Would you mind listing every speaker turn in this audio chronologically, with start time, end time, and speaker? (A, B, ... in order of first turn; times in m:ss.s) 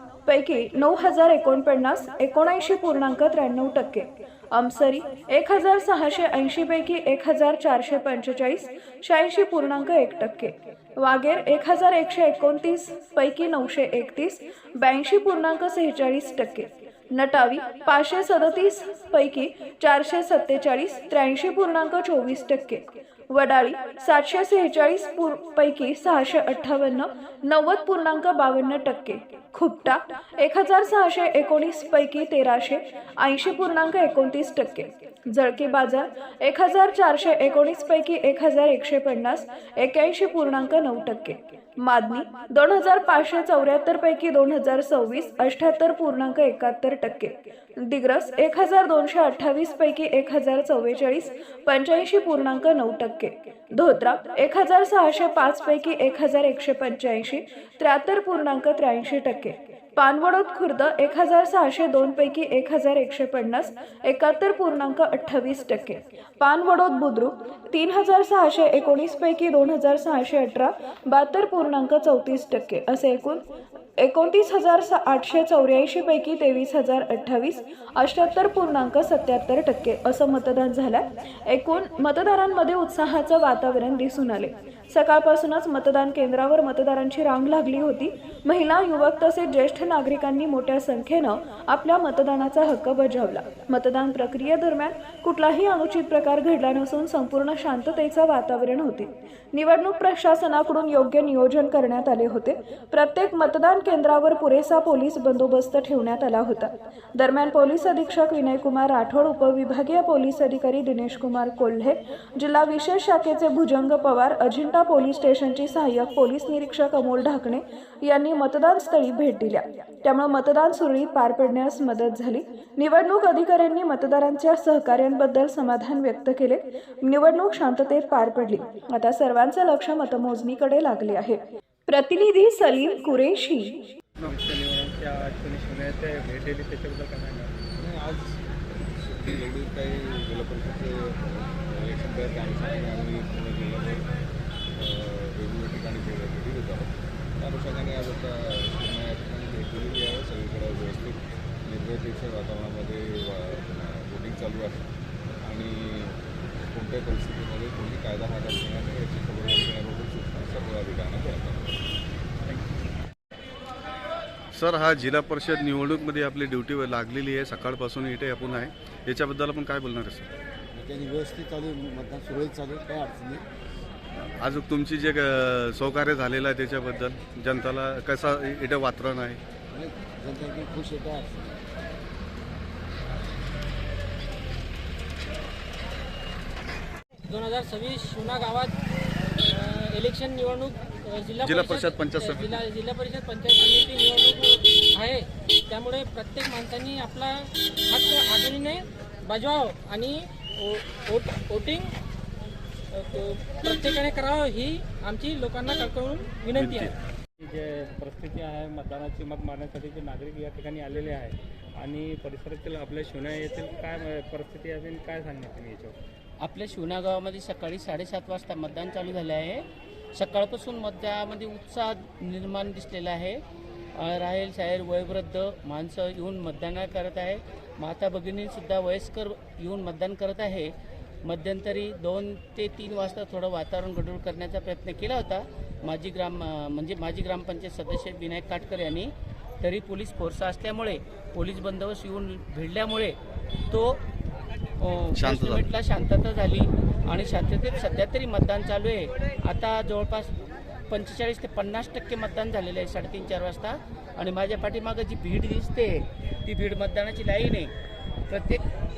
0:00.3-1:13.4 A
1:14.0-2:13.8 A
2:14.2-2:17.5 B
2:17.8-2:24.1 C
2:24.8-2:34.8 C
2:35.4-2:36.2 C
2:36.7-2:41.8 C
2:44.6-2:50.3 D
2:50.8-2:53.4 E
2:54.4-2:59.4 D
2:59.7-3:01.6 E
3:07.3-3:08.8 F
3:09.5-3:22.0 F
3:11.4-3:12.6 D
3:22.9-3:26.9 F
3:26.6-3:26.9 D
3:27.4-3:36.0 B
3:36.4-3:43.4 G
3:44.0-3:50.7 G
3:51.2-4:03.2 G
4:03.7-4:04.0 G
4:04.8-4:10.3 G
4:05.1-4:05.6 D
4:10.9-4:17.7 G
4:18.3-4:18.6 G